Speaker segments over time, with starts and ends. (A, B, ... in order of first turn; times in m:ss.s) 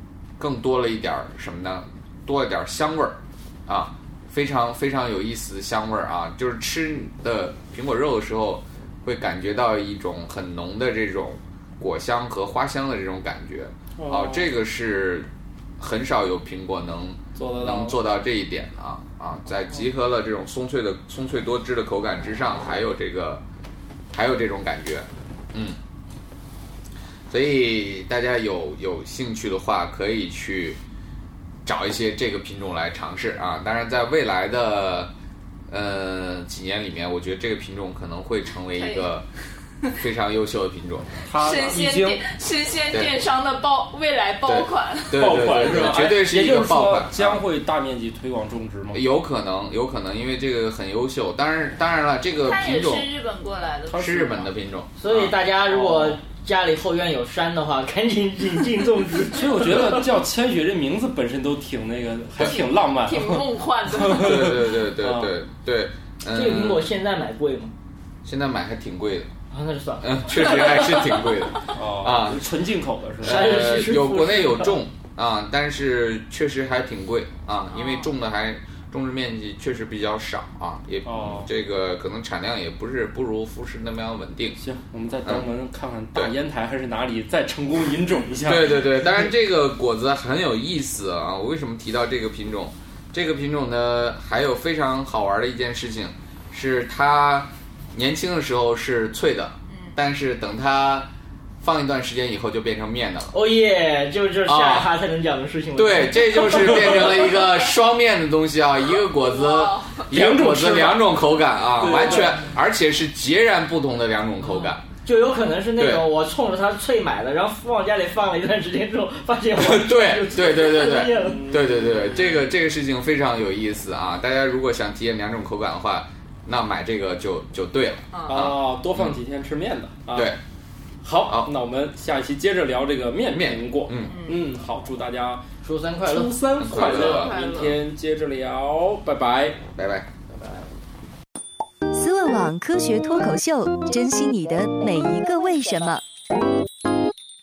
0:00.4-0:15.3 A
0:14.0-0:14.5 B
0:15.8-0:23.4 A
0:17.4-0:18.0 B
0:24.1-0:25.8 A
0:27.3-0:30.8 A
0:31.7-0:35.1 A
0:35.7-0:39.2 A
0:38.7-0:39.1 C
0:40.0-0:41.1 A
0:41.2-0:42.2 B
0:41.3-0:45.3 C
0:44.4-0:47.4 A
0:45.1-0:49.0 B
0:48.9-0:53.1 A
0:52.4-0:54.1 C
0:53.9-0:54.5 B
0:53.9-0:55.4 A
0:55.0-1:00.1 D
0:55.7-0:56.2 B
0:59.3-1:05.3 B
1:03.0-1:04.5 C
1:04.1-1:06.9 A
1:06.3-1:07.7 D
1:08.2-1:09.3 A
1:09.5-1:10.2 D
1:10.0-1:12.5 A
1:10.4-1:11.2 C
1:11.7-1:13.4 B
1:13.2-1:24.6 A
1:13.2-1:14.8 D
1:17.7-1:18.1 C
1:21.0-1:21.5 B
1:24.6-1:28.9 B
1:28.5-1:41.1 A
1:39.7-1:40.0 C
1:41.6-1:43.4 A
1:43.3-1:47.2 D
1:44.4-1:44.9 A
1:45.8-1:54.8 A
1:49.2-1:50.1 C
1:50.1-1:51.1 B
1:51.7-1:52.4 B
1:55.0-2:01.5 D
1:55.8-1:56.1 A
1:59.6-2:09.2 A
2:01.1-2:02.0 B
2:08.1-2:08.5 C
2:08.2-2:10.3 B
2:10.1-2:10.4 A
2:11.0-2:15.4 B
2:11.3-2:11.5 A
2:13.3-2:14.2 A
2:14.0-2:14.5 C
2:15.6-2:16.4 D
2:16.0-2:19.6 B
2:16.6-2:17.3 A
2:16.7-2:17.8 C
2:19.8-2:20.1 A
2:21.9-2:26.0 E